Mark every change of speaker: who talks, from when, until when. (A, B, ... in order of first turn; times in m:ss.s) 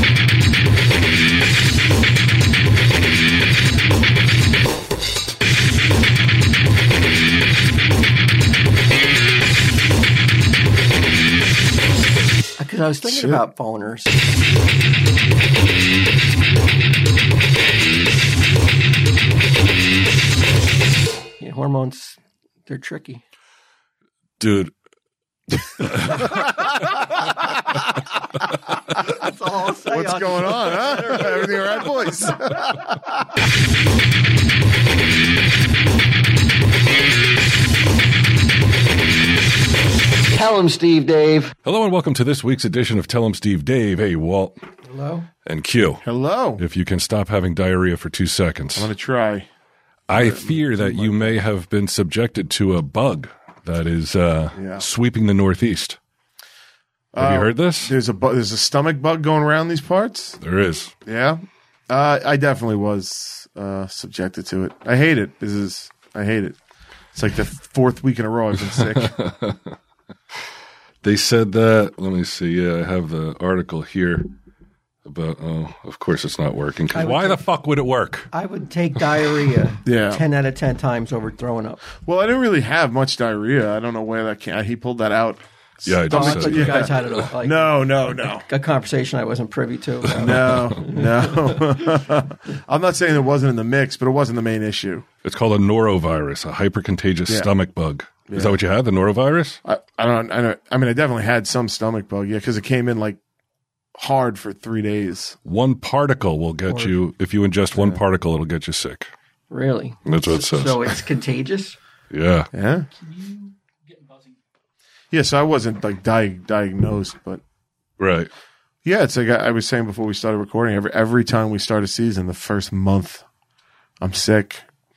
0:12.6-0:14.2 A
0:13.0-0:13.4 B
0:21.4-0:23.2 A
0:24.4-0:24.7 C
0:25.8-0:26.4 C
0:26.3-0:26.8 B
0:29.0-0:31.1 A
0:29.9-0:33.1 B
0:40.3-0:41.6 A
0:41.6-0:44.6 C
0:44.8-0:45.3 A
0:45.4-0:46.0 C
0:46.0-0:46.6 B
0:46.6-0:48.9 C
0:48.8-0:49.5 B
0:50.1-0:56.0 C
0:50.1-0:51.4 B
0:54.6-0:54.8 B
0:57.1-1:00.4 B
0:57.2-0:58.0 C
1:00.4-1:00.9 C
1:01.1-1:06.6 B
1:07.1-1:09.1 B
1:08.8-1:09.8 C
1:11.0-1:14.3 C
1:15.0-1:18.3 C
1:16.9-1:17.4 A
1:18.3-1:21.8 A
1:19.8-1:20.2 B
1:22.0-1:28.5 B
1:25.8-1:27.2 C
1:26.1-1:32.0 A
1:30.2-1:35.1 B
1:30.2-1:30.7 C
1:35.2-1:39.6 C
1:38.3-1:38.6 B
1:39.6-1:43.2 B
1:44.0-1:45.4 B
1:45.5-1:49.1 C
1:46.7-1:47.0 A
1:49.5-1:51.8 A
1:50.1-1:51.0 C
1:52.1-1:52.5 C
1:52.5-1:52.9 B
1:55.1-1:57.4 B
1:58.0-1:58.3 C
1:58.8-2:03.2 B
2:04.0-2:04.6 B